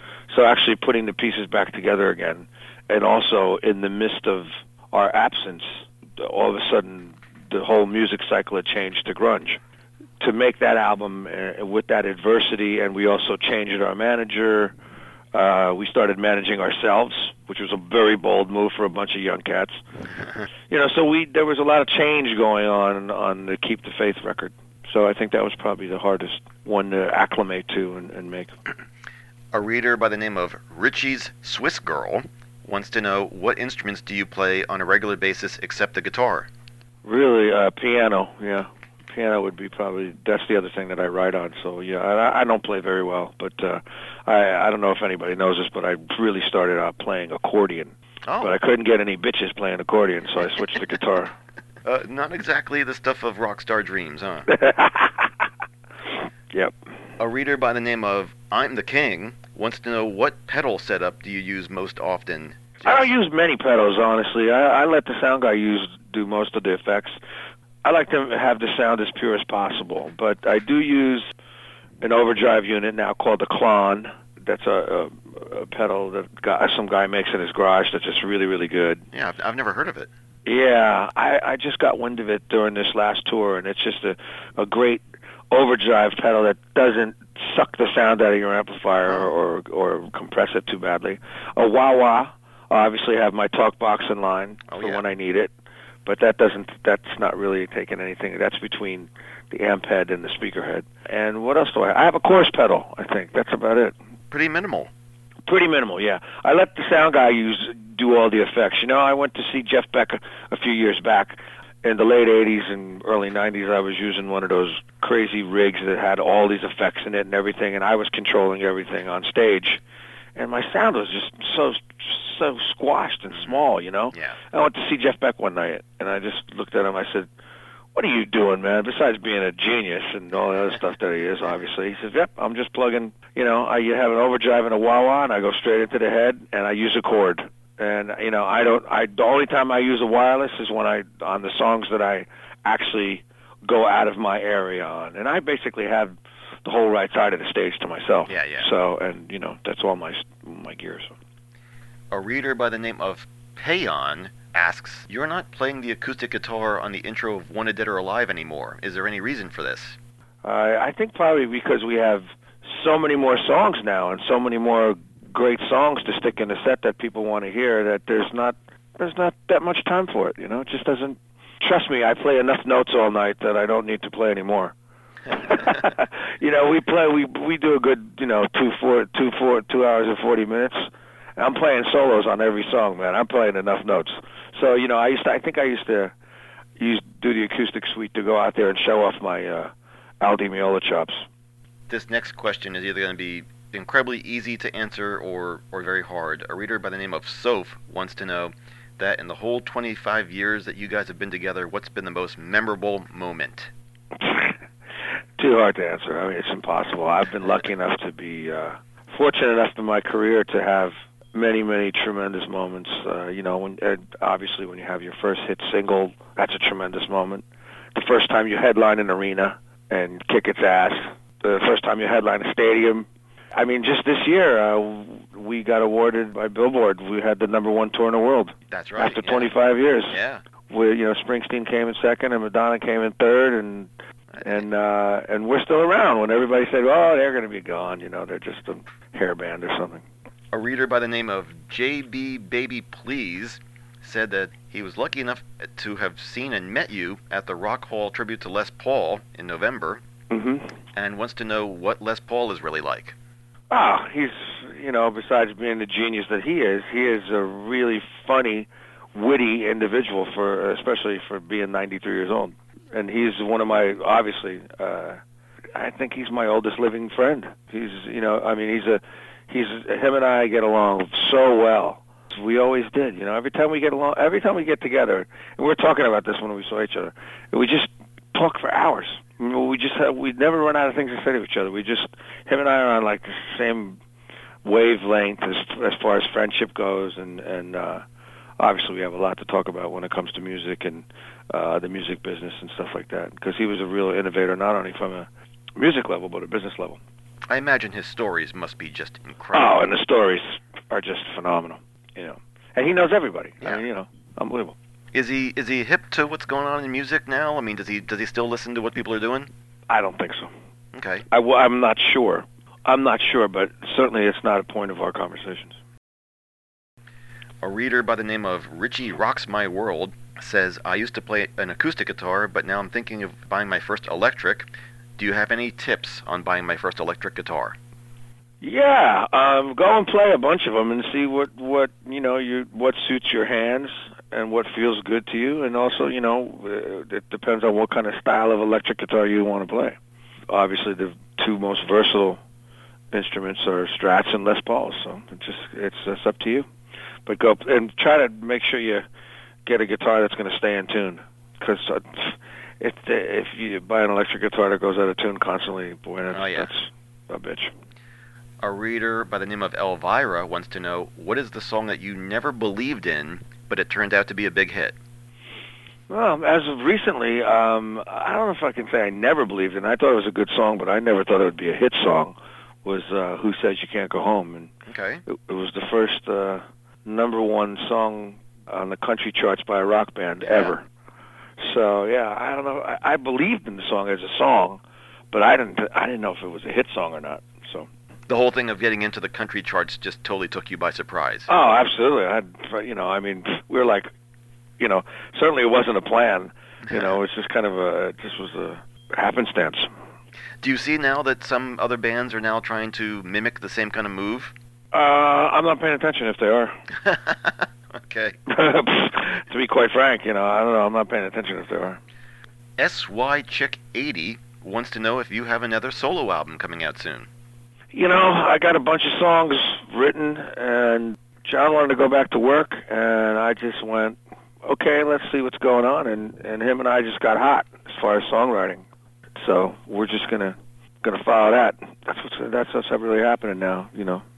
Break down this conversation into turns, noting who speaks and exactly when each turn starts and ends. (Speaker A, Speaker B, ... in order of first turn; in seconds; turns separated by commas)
Speaker A: 0.3-9.6, Speaker A: 10.2-14.8, Speaker A: 15.3-19.8, Speaker A: 20.7-28.5, Speaker B: 29.5-36.5, Speaker A: 37.0-51.3, Speaker B: 48.3-48.6, Speaker B: 51.9-54.5, Speaker A: 54.5-55.3, Speaker B: 57.2-63.1, Speaker A: 62.8-67.2, Speaker A: 67.8-71.3, Speaker A: 72.0-79.0, Speaker B: 79.1-80.1, Speaker A: 80.5-95.5, Speaker B: 94.7-95.0, Speaker A: 96.1-104.0, Speaker B: 104.3-104.9, Speaker A: 105.5-119.8, Speaker A: 120.4-127.3, Speaker B: 123.3-123.6, Speaker B: 124.1-124.4, Speaker A: 128.0-151.1, Speaker B: 148.3-148.7, Speaker B: 152.1-160.0, Speaker A: 160.4-174.8, Speaker A: 175.3-186.1, Speaker A: 186.8-191.2, Speaker B: 191.9-203.7, Speaker A: 204.2-204.6, Speaker A: 205.4-240.0, Speaker B: 228.7-229.5, Speaker B: 230.1-230.4, Speaker B: 234.3-234.6, Speaker B: 240.5-250.0, Speaker A: 250.3-250.7, Speaker B: 250.9-253.2, Speaker A: 253.7-265.2, Speaker A: 265.8-284.0, Speaker A: 284.6-288.0, Speaker A: 288.6-297.0, Speaker B: 297.5-299.8, Speaker A: 299.5-304.8, Speaker B: 305.1-309.5, Speaker A: 309.9-310.5, Speaker B: 310.9-311.3, Speaker A: 311.3-315.8, Speaker B: 317.6-327.8, Speaker A: 328.6-340.0, Speaker A: 340.5-342.4, Speaker A: 343.1-346.7, Speaker A: 347.3-349.1, Speaker A: 349.7-357.7, Speaker B: 356.3-356.7, Speaker B: 358.6-365.0, Speaker A: 366.1-374.7, Speaker B: 374.9-375.2, Speaker A: 375.3-380.8, Speaker B: 380.4-380.8, Speaker A: 381.6-384.8, Speaker A: 385.3-387.9, Speaker B: 388.3-391.5, Speaker A: 391.5-394.1, Speaker A: 394.8-399.9, Speaker B: 400.6-404.5, Speaker A: 404.9-406.7, Speaker B: 407.1-408.4, Speaker A: 408.5-412.0, Speaker B: 412.8-417.3, Speaker A: 417.9-428.9, Speaker A: 429.4-434.2